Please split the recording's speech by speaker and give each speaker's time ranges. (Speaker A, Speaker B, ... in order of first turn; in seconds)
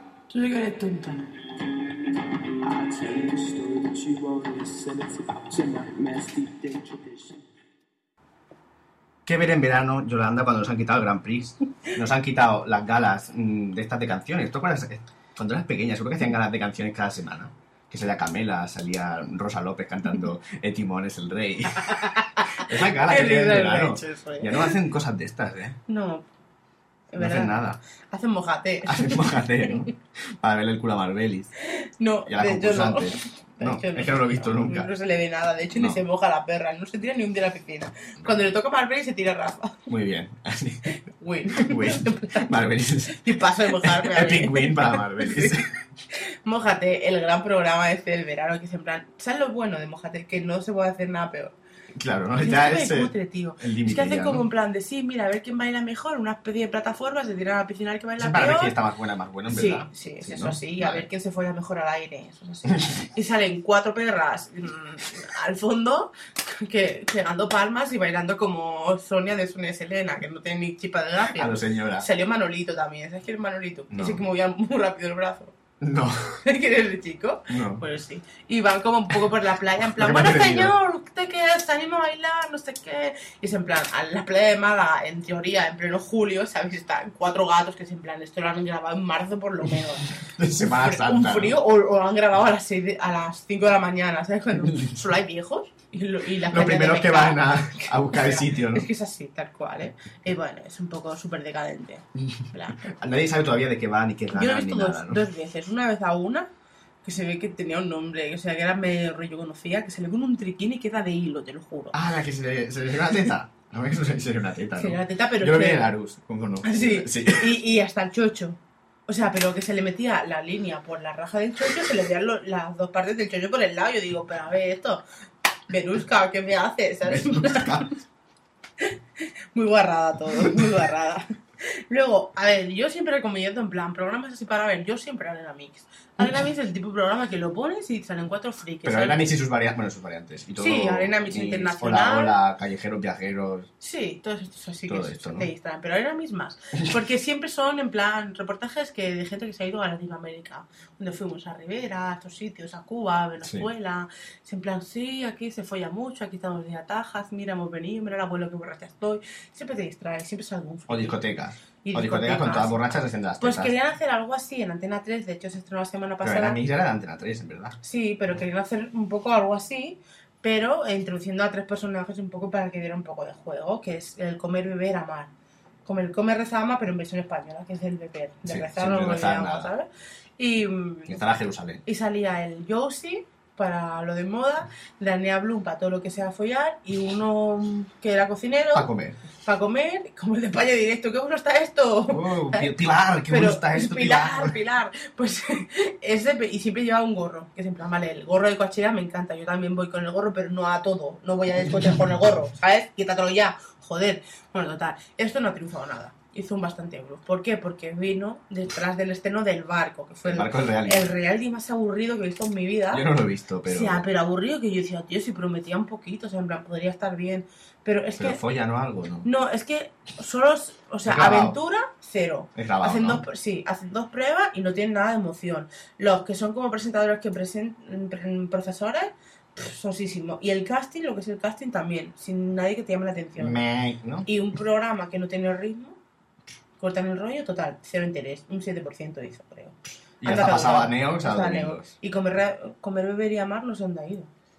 Speaker A: 0.3-1.2, 21.9-24.7, 25.9-26.2, 27.1-29.9, 31.6-39.9, 40.9-42.5, 43.1-51.5, 52.4-58.7, 59.5-75.5, 76.4-102.9, 104.3-106.5, 107.0-112.0, 114.8-115.9, 116.6-125.0, 125.7-127.9, 128.8-139.3, 140.6-142.4, 143.8-161.2, 161.8-166.6, 167.8-175.3, 175.8-181.3, 181.8-188.9, 189.4-192.7, 193.3-213.1, 213.7-218.4, 219.2-233.6, 234.2-236.0, 236.8-244.3
Speaker B: 2.6-7.5
Speaker C: 9.3-25.8, 27.2-27.8, 28.9-31.5, 32.3-34.9, 35.7-36.0, 39.9-40.9, 41.5-45.7, 52.0-54.5, 58.2-61.0, 71.3-72.1, 73.9-74.2, 75.8-76.4, 77.5-77.8, 80.0-80.7, 90.2-91.6, 94.6-95.0, 96.4-98.9, 102.2-105.2, 111.9-117.6, 127.0-127.9, 138.8-143.7, 144.9-145.5, 160.9-163.7, 166.2-167.8, 178.5-179.7, 181.1-181.8, 188.7-189.2, 192.1-194.6, 210.2-211.2, 212.9-214.0, 218.2-219.3, 221.1-221.6, 222.6-223.2, 233.4-234.3, 240.2-241.9